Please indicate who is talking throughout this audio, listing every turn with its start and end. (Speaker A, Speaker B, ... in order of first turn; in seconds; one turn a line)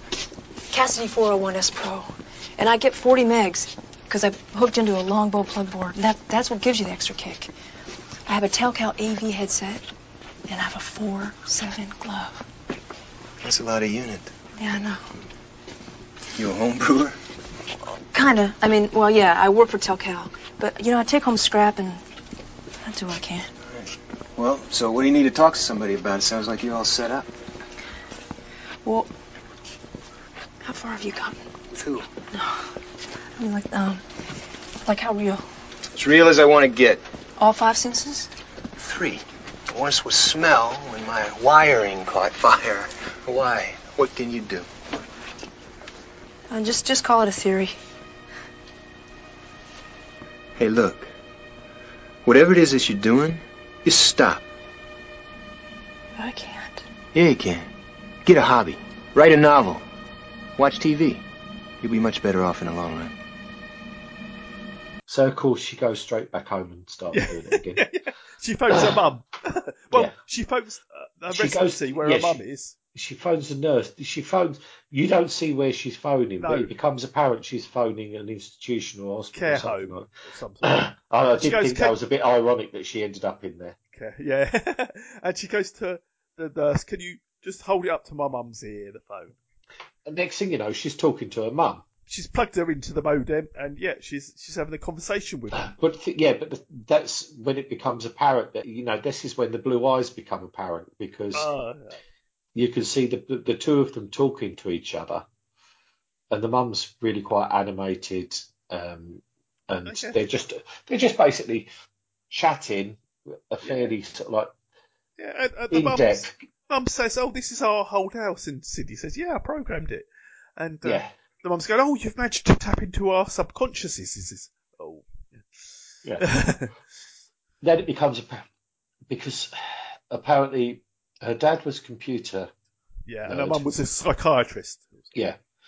Speaker A: 0.7-7.5
Speaker A: 8.3-9.8
Speaker A: 10.5-12.4
Speaker B: 13.4-14.3
Speaker A: 14.6-15.1
Speaker B: 16.3-17.2
Speaker A: 18.1-22.0
Speaker A: 22.8-23.5
Speaker B: 23.7-27.3
Speaker A: 28.8-29.1
Speaker A: 30.6-31.4
Speaker B: 31.7-32.1
Speaker A: 32.3-32.6
Speaker A: 33.4-34.0
Speaker A: 34.8-35.4
Speaker B: 35.9-37.0
Speaker A: 37.4-38.3
Speaker B: 38.8-44.7
Speaker A: 46.5-47.8
Speaker B: 50.5-51.1
Speaker B: 52.2-54.4
Speaker A: 56.2-56.8
Speaker B: 57.1-57.7
Speaker B: 58.2-59.8
Speaker B: 60.6-61.2
Speaker B: 61.8-63.1
Speaker C: 65.1-67.8
Speaker D: 67.1-72.8
Speaker C: 68.7-69.0
Speaker C: 71.3-72.4
Speaker C: 72.9-80.1
Speaker D: 76.4-76.7
Speaker D: 79.3-80.8
Speaker C: 80.6-83.8
Speaker D: 81.3-82.0
Speaker D: 83.9-89.3
Speaker C: 90.0-91.8
Speaker D: 92.1-95.7
Speaker C: 95.5-101.5
Speaker D: 101.3-102.0
Speaker C: 102.5-105.2
Speaker C: 106.3-111.7
Speaker D: 109.8-110.2
Speaker C: 112.3-114.5
Speaker D: 113.6-113.9
Speaker D: 115.2-125.4
Speaker C: 115.7-116.4
Speaker C: 120.8-121.1
Speaker C: 126.0-126.3
Speaker D: 126.2-126.7
Speaker C: 127.6-128.4
Speaker C: 129.1-132.5
Speaker D: 133.1-135.1
Speaker C: 133.2-133.6
Speaker C: 135.1-135.4